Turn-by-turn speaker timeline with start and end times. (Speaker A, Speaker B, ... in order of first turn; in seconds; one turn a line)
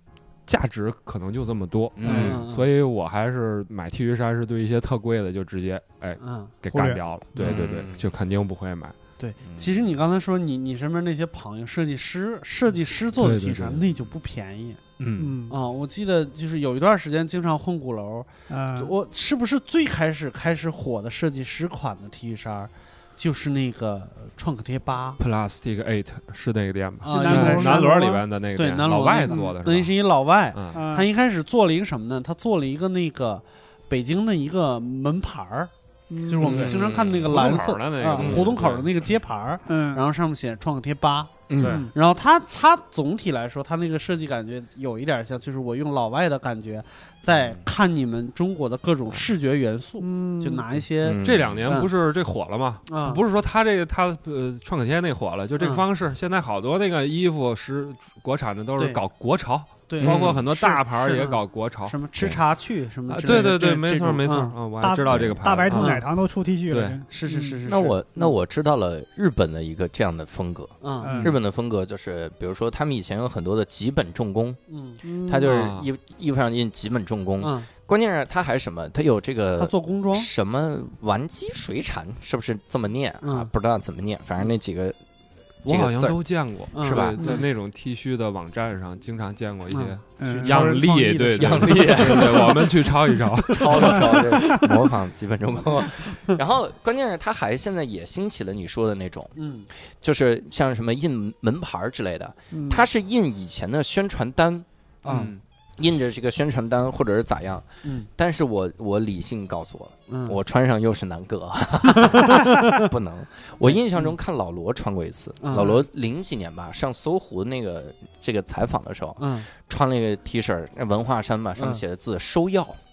Speaker A: 0.5-8.9
Speaker B: 1.9-2.5
Speaker C: 2.0-2.7
Speaker C: 6.2-6.5
Speaker D: 6.7-7.0
Speaker B: 7.4-8.1
Speaker C: 9.2-14.8
Speaker B: 9.4-9.7
Speaker A: 13.2-13.8
Speaker A: 15.0-15.3
Speaker D: 15.2-15.6
Speaker C: 15.5-25.2
Speaker D: 18.5-18.9
Speaker A: 25.2-30.0
Speaker C: 27.0-35.7
Speaker D: 27.1-28.2
Speaker A: 30.5-30.8
Speaker D: 30.7-31.1
Speaker D: 36.1-36.6
Speaker C: 36.3-51.9
Speaker A: 36.4-38.9
Speaker B: 36.4-37.6
Speaker B: 38.1-38.6
Speaker D: 39.7-40.0
Speaker B: 41.5-41.8
Speaker A: 41.6-41.9
Speaker B: 47.3-47.6
Speaker D: 50.0-50.6
Speaker B: 51.0-51.6
Speaker A: 51.1-62.0
Speaker C: 52.9-53.2
Speaker C: 55.6-55.8
Speaker C: 59.9-64.5
Speaker B: 60.0-60.4
Speaker A: 63.1-66.0
Speaker D: 63.3-67.6
Speaker B: 65.1-65.4
Speaker C: 65.7-66.0
Speaker A: 66.7-67.0
Speaker C: 67.1-68.3
Speaker B: 67.7-74.6
Speaker C: 70.8-71.3
Speaker D: 71.0-71.3
Speaker C: 74.7-75.0
Speaker D: 75.0-75.6
Speaker B: 75.2-85.0
Speaker A: 75.4-75.9
Speaker C: 77.4-77.7
Speaker C: 79.6-80.3
Speaker C: 83.2-83.5
Speaker B: 85.6-86.2
Speaker A: 85.6-94.3
Speaker B: 86.7-87.3
Speaker C: 86.7-87.4
Speaker C: 89.7-92.9
Speaker D: 90.2-90.8
Speaker B: 91.3-92.7
Speaker B: 93.5-99.3
Speaker C: 93.7-94.7
Speaker C: 99.3-99.7
Speaker B: 100.0-104.7
Speaker D: 102.5-102.8
Speaker C: 105.0-105.3
Speaker A: 105.0-105.4
Speaker B: 105.8-122.8
Speaker C: 107.8-108.1
Speaker C: 110.1-110.4
Speaker C: 112.0-112.9
Speaker C: 113.6-114.1
Speaker C: 115.4-115.8
Speaker C: 119.2-119.5
Speaker C: 121.6-121.8